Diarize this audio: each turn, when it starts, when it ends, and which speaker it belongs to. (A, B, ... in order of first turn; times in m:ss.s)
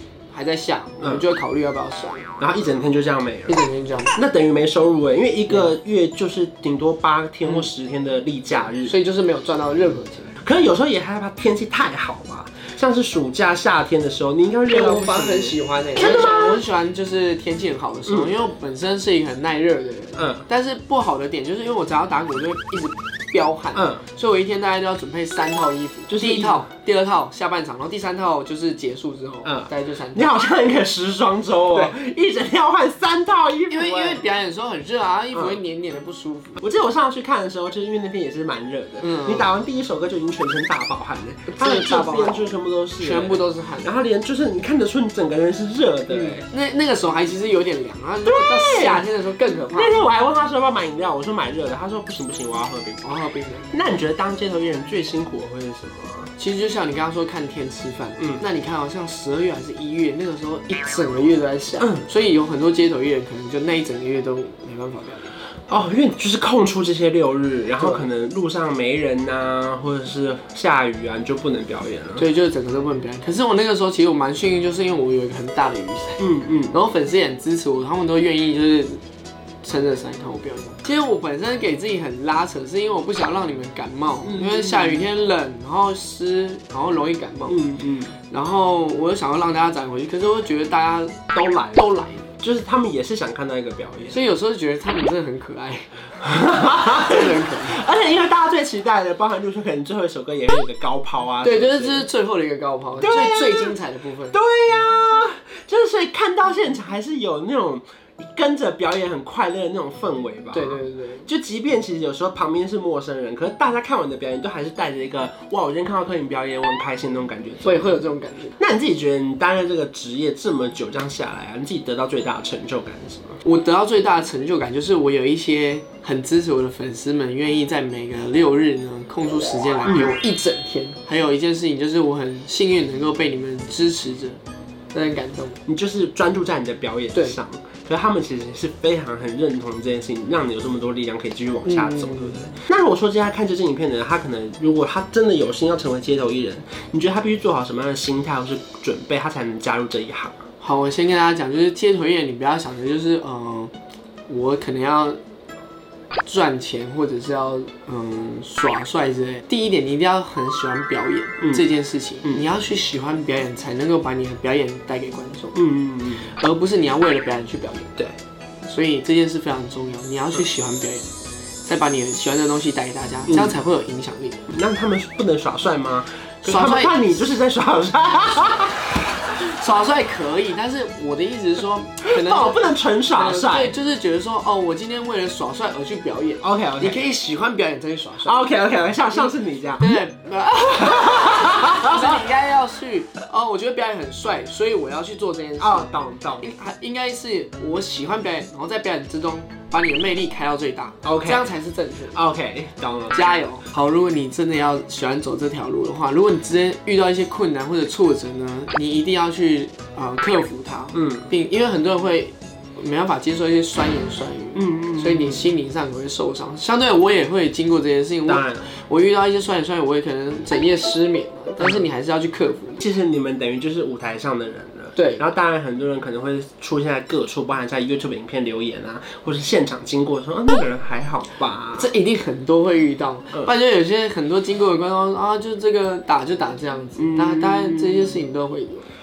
0:00.3-0:02.3 A
0:02.4-0:03.6 B
0:03.5-0:04.2 A
0:04.2-0:08.9 B
0:08.9-0:10.4 A
0:10.4-0:16.6 B
0:14.7-0:30.3 A
0:18.1-0:18.3 B
0:20.2-0:20.4 B
0:23.8-0:24.0 B
0:26.1-0:26.7 B
0:29.4-0:34.2 B
0:33.7-0:36.6 A
0:35.3-0:35.6 B
0:36.6-0:46.4 B
0:39.0-0:39.5 A
0:41.5-0:43.9 A
0:46.1-0:50.0 A
0:48.3-0:49.1 B
0:49.7-0:53.0 B
0:53.0-0:53.7 A
0:53.7-0:56.3 B
0:56.4-1:05.4 A
1:01.8-1:02.0 B
1:05.7-1:12.3 B
1:07.8-1:08.1 A
1:12.2-1:19.0 A
1:16.2-1:16.7 B
1:19.6-1:27.6 A
1:24.2-1:25.1 B
1:27.5-1:28.2 B
1:28.3-1:32.3 A
1:31.4-1:31.8 B
1:32.4-1:34.2 B
1:34.1-1:37.8 A
1:36.2-1:42.1 B
1:41.4-1:44.4 A
1:43.0-1:43.8 B
1:44.3-1:58.0 B
1:50.5-1:51.3 A
1:57.6-1:58.6 A
1:58.6-2:03.4 B
2:03.4-2:14.4 A
2:09.9-2:10.1 B
2:14.9-2:15.6 A
2:15.7-2:30.4 B
2:21.6-2:22.5 A
2:30.6-2:33.7 A
2:34.3-2:35.2 A
2:36.3-2:45.6 A
2:45.6-2:46.3 B
2:46.3-2:48.0 A
2:48.7-2:51.1 A
2:51.6-2:54.5 A
2:53.3-2:53.6 B
2:54.5-2:59.0 B
2:56.5-2:57.1 A
2:59.3-3:08.4 A
3:02.0-3:03.8 B
3:06.4-3:07.0 B
3:08.2-3:10.0 B
3:09.8-3:22.2 A
3:10.7-3:12.2 B
3:15.6-3:16.6 B
3:21.0-3:21.5 B
3:22.1-3:23.4 B
3:23.1-3:42.8 A
3:30.9-3:31.3 B
3:34.5-3:35.5 B
3:38.3-3:38.7 B
3:42.8-3:51.9 B
3:45.0-3:45.2 A
3:51.8-3:58.9 A
3:57.0-3:58.2 B